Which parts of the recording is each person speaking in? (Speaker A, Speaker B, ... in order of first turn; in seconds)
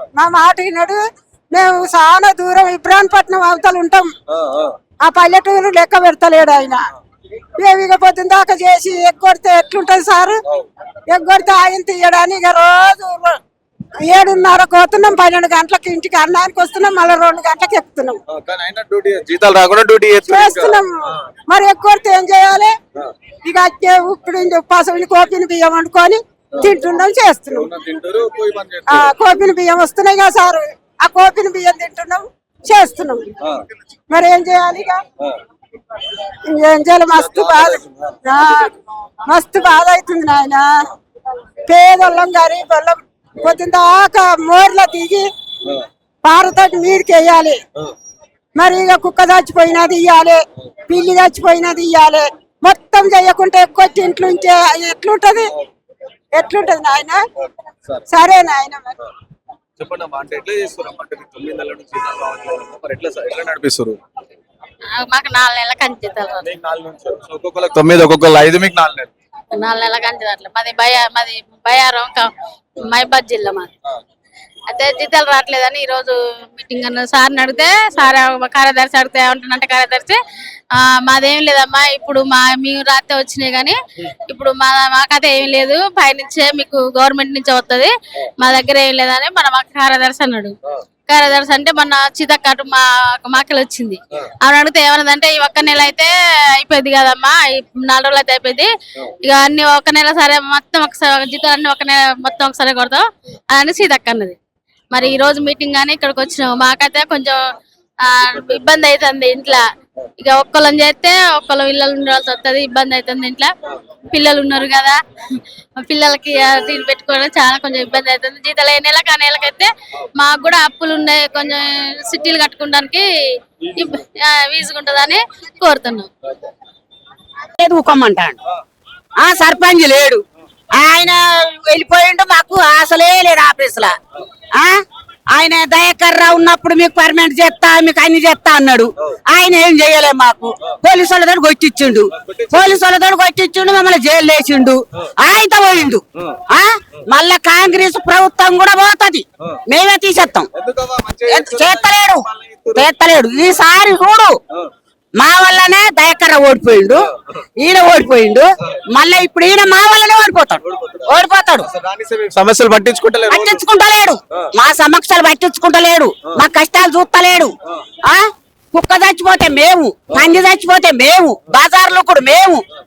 Speaker A: 0.2-4.1, 5.0-6.8, 7.6-10.4, 11.1-13.3, 14.1-18.2, 20.3-21.0, 21.5-22.7, 23.4-27.7, 28.9-33.2, 34.1-35.0, 36.5-38.7, 39.3-40.7, 41.7-45.2, 46.2-47.6, 48.5-55.5, 56.3-57.2, 58.1-58.9
Speaker B: 4.3-4.8, 18.3-21.2, 27.5-29.1, 33.4-33.6, 37.1-38.2, 59.8-64.0, 66.4-69.1, 142.1-142.8, 150.5-152.9, 160.6-163.6
Speaker C: 64.9-66.5, 69.5-73.7, 74.7-80.2, 80.8-83.8, 84.3-90.5, 91.1-98.7, 99.2-104.3, 104.9-107.4, 108.0-109.6, 110.2-113.5, 114.1-123.0, 123.7-126.1
Speaker D: 127.5-128.3, 129.2-133.9, 135.3-150.5, 151.3-152.2, 152.7-154.4, 155.2-161.7, 163.3-167.5, 168.1-172.6